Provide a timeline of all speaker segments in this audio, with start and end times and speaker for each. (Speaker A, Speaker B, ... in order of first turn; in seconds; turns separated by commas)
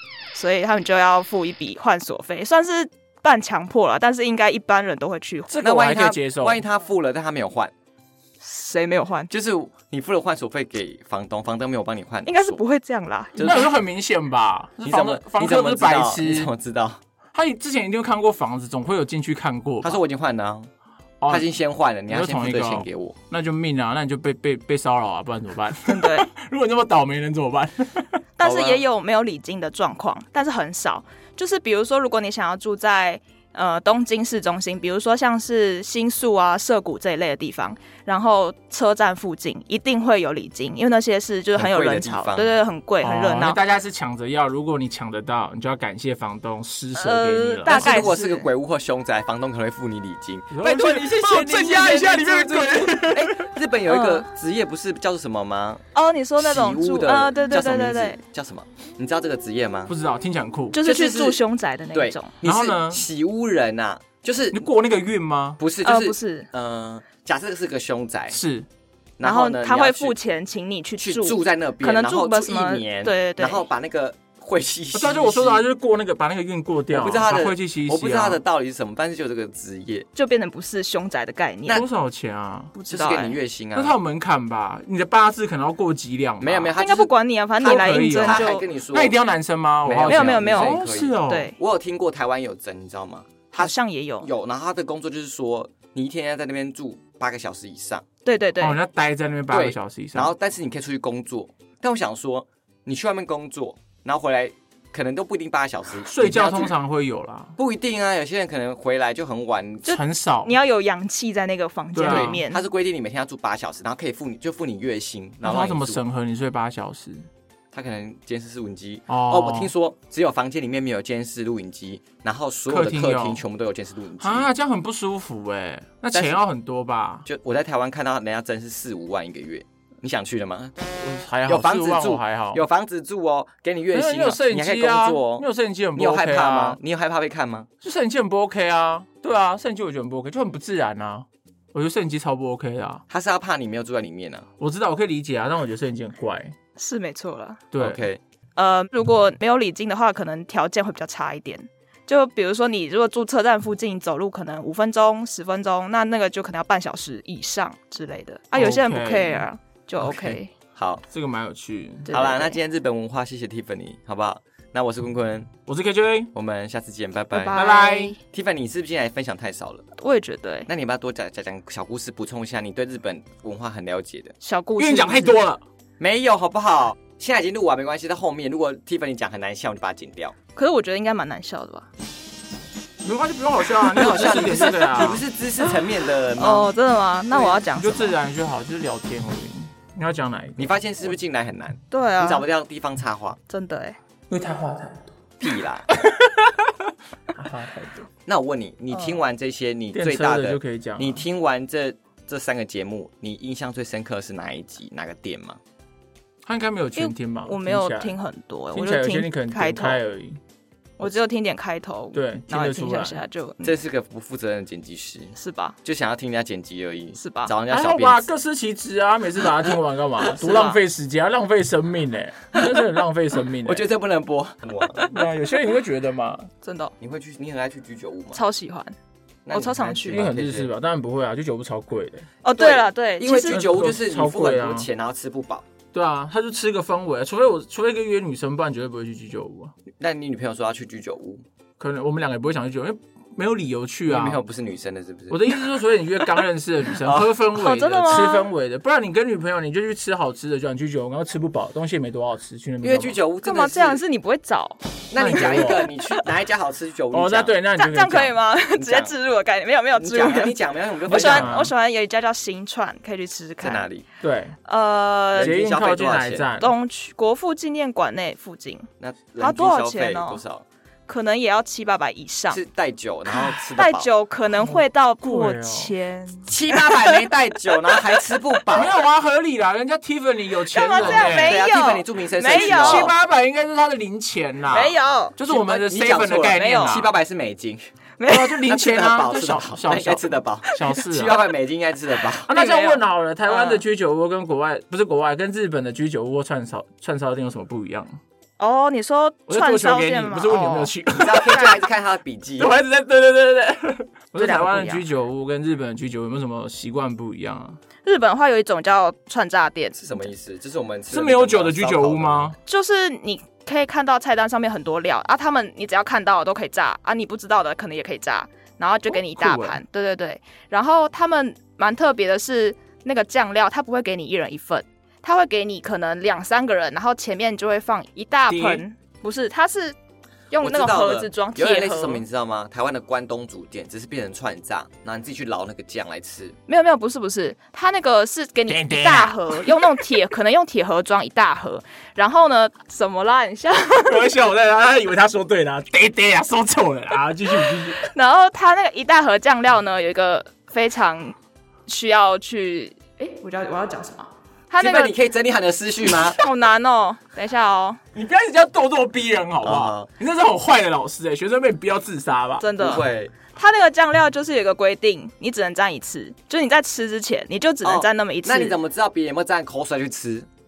Speaker A: 0.3-5.5, Speaker B: 5.5-6.6, Speaker C: 5.6-7.7, Speaker A: 8.4-9.3, Speaker C: 9.3-12.6, Speaker A: 12.2-13.7, Speaker C: 13.4-13.7, Speaker B: 13.4-16.5, Speaker C: 14.8-17.0, Speaker B: 17.3-20.0, Speaker C: 19.8-20.7, Speaker B: 21.2-21.4, Speaker C: 21.3-23.1, Speaker B: 22.1-28.2, Speaker A: 25.9-26.3, Speaker A: 28.4-43.6, Speaker C: 28.4-28.8, Speaker C: 41.5-42.6, Speaker B: 43.0-48.1, Speaker A: 46.9-48.5, Speaker C: 47.6-55.8, Speaker B: 50.5-53.5, Speaker A: 53.9-54.2, Speaker A: 55.9-58.2, Speaker C: 56.4-59.9, Speaker B: 59.9-60.8, Speaker A: 60.7-62.3, Speaker C: 60.8-61.4, Speaker C: 61.9-64.6, Speaker B: 62.4-63.0, Speaker B: 64.5-65.6, Speaker C: 65.6-68.4, Speaker A: 65.8-66.5, Speaker B: 68.3-68.7, Speaker C: 69.2-70.2, Speaker A: 69.2-73.6, Speaker C: 71.0-75.6, Speaker B: 74.9-78.4, Speaker C: 76.9-80.0, Speaker A: 80.2-81.8, Speaker B: 81.7-82.7, Speaker A: 82.7-83.4, Speaker C: 82.9-83.9, Speaker B: 83.7-86.7, Speaker C: 86.4-89.1, Speaker A: 86.8-88.6, Speaker B: 87.6-91.5, Speaker C: 89.8-98.0, Speaker A: 90.0-91.6, Speaker A: 93.6-94.3, Speaker A: 98.2-98.8, Speaker B: 98.6-100.3, Speaker C: 99.5-106.7, Speaker B: 106.0-107.5, Speaker C: 107.5-109.9, Speaker B: 109.8-110.5, Speaker A: 109.8-112.6, Speaker B: 111.9-112.4, Speaker C: 112.0-116.0, Speaker B: 115.4-117.3, Speaker C: 117.7-124.5, Speaker B: 119.1-119.7, Speaker B: 122.7-123.4, Speaker B: 124.2-127.2, Speaker C: 126.1-126.4, Speaker C: 127.2-130.8, Speaker B: 131.0-132.6, Speaker C: 131.4-137.7, Speaker B: 133.9-136.8, Speaker B: 137.8-143.0, Speaker C: 143.1-144.4, Speaker B: 144.6-146.5, Speaker A: 146.8-147.6, Speaker B: 147.7-148.1, Speaker C: 147.8-148.2, Speaker A: 148.6-160.5, Speaker B: 158.5-159.4, Speaker B: 160.0-160.4, Speaker C: 160.8-161.0, Speaker B: 161.1-162.1, Speaker A: 162.1-162.6, Speaker C: 162.1-165.5, Speaker B: 165.7-166.3, Speaker C: 166.3-167.6, Speaker A: 167.3-168.2, Speaker B: 167.5-168.2, Speaker C: 168.3-169.8, Speaker A: 170.0-170.7, Speaker C: 170.7-174.3, Speaker A: 174.4-175.4, Speaker B: 174.8-175.6, Speaker C: 176.0-180.3, Speaker A: 180.6-181.9, Speaker B: 183.0-185.2, Speaker C: 184.0-186.7, Speaker A: 184.0-185.1, Speaker A: 186.4-188.2, Speaker B: 187.7-190.8, Speaker C: 190.6-193.4, Speaker A: 191.9-192.4, Speaker A: 193.5-193.9, Speaker B: 194.3-195.1, Speaker C: 195.4-195.9, Speaker B: 195.9-198.1, Speaker C: 198.2-205.6, Speaker A: 198.9-199.2, Speaker B: 199.9-201.2, Speaker B: 206.4-208.1, Speaker A: 206.9-210.0, Speaker B: 208.7-210.4, Speaker A: 211.0-213.7, Speaker B: 212.1-213.2, Speaker C: 213.6-218.3, Speaker A: 215.4-215.8, Speaker A: 217.2-217.5, Speaker B: 217.7-223.8, Speaker C: 220.2-220.8, Speaker C: 223.6-225.1, Speaker B: 225.1-226.5, Speaker A: 226.6-226.9, Speaker C: 227.0-228.4, Speaker A: 228.3-228.9, Speaker C: 229.4-230.7, Speaker A: 229.5-230.2, Speaker B: 230.1-232.3, Speaker A: 232.4-233.6, Speaker C: 232.6-235.6, Speaker B: 233.5-234.9, Speaker B: 235.9-239.7, Speaker C: 240.0-241.4, Speaker B: 241.8-244.4, Speaker C: 244.1-245.4, Speaker B: 245.3-253.2, Speaker C: 247.0-247.3, Speaker A: 247.5-248.5, Speaker C: 252.8-254.0, Speaker A: 253.4-256.2, Speaker C: 255.1-257.6, Speaker B: 255.2-255.8, Speaker B: 257.1-258.4, Speaker A: 257.8-263.9, Speaker C: 258.7-259.1, Speaker C: 259.9-261.7, Speaker B: 261.1-261.7, Speaker C: 263.6-264.0, Speaker B: 264.2-264.5, Speaker A: 264.6-265.5, Speaker C: 265.3-266.5, Speaker B: 265.4-266.7, Speaker A: 266.6-270.4, Speaker C: 269.0-270.6, Speaker A: 271.1-272.6, Speaker C: 272.5-274.1, Speaker A: 273.3-278.4, Speaker B: 274.6-275.9, Speaker C: 276.4-278.9, Speaker B: 278.7-281.6, Speaker A: 280.7-283.1, Speaker C: 281.0-283.1, Speaker B: 282.5-287.1, Speaker A: 284.7-285.3, Speaker C: 285.5-287.8, Speaker A: 286.6-287.0, Speaker A: 288.2-288.6, Speaker B: 288.3-291.4, Speaker C: 288.6-292.5, Speaker B: 292.4-298.1, Speaker A: 292.5-293.8, Speaker A: 298.6-300.9, Speaker B: 299.5-301.7, Speaker C: 301.1-302.7, Speaker A: 301.5-301.8, Speaker B: 302.6-307.8, Speaker A: 304.4-305.0, Speaker A: 308.0-310.3, Speaker C: 309.9-312.5, Speaker B: 311.1-312.6, Speaker A: 312.6-329.9, Speaker B: 319.1-319.8, Speaker B: 328.5-328.8, Speaker A: 330.5-332.2, Speaker C: 330.6-336.6, Speaker A: 336.7-344.2, Speaker B: 338.7-340.0, Speaker B: 343.9-348.1, Speaker A: 348.0-351.4, Speaker A: 351.9-355.1, Speaker C: 354.8-356.4, Speaker A: 356.2-358.0, Speaker B: 358.1-362.7, Speaker C: 359.6-360.1, Speaker A: 362.6-368.8, Speaker C: 362.8-363.3, Speaker C: 367.8-370.5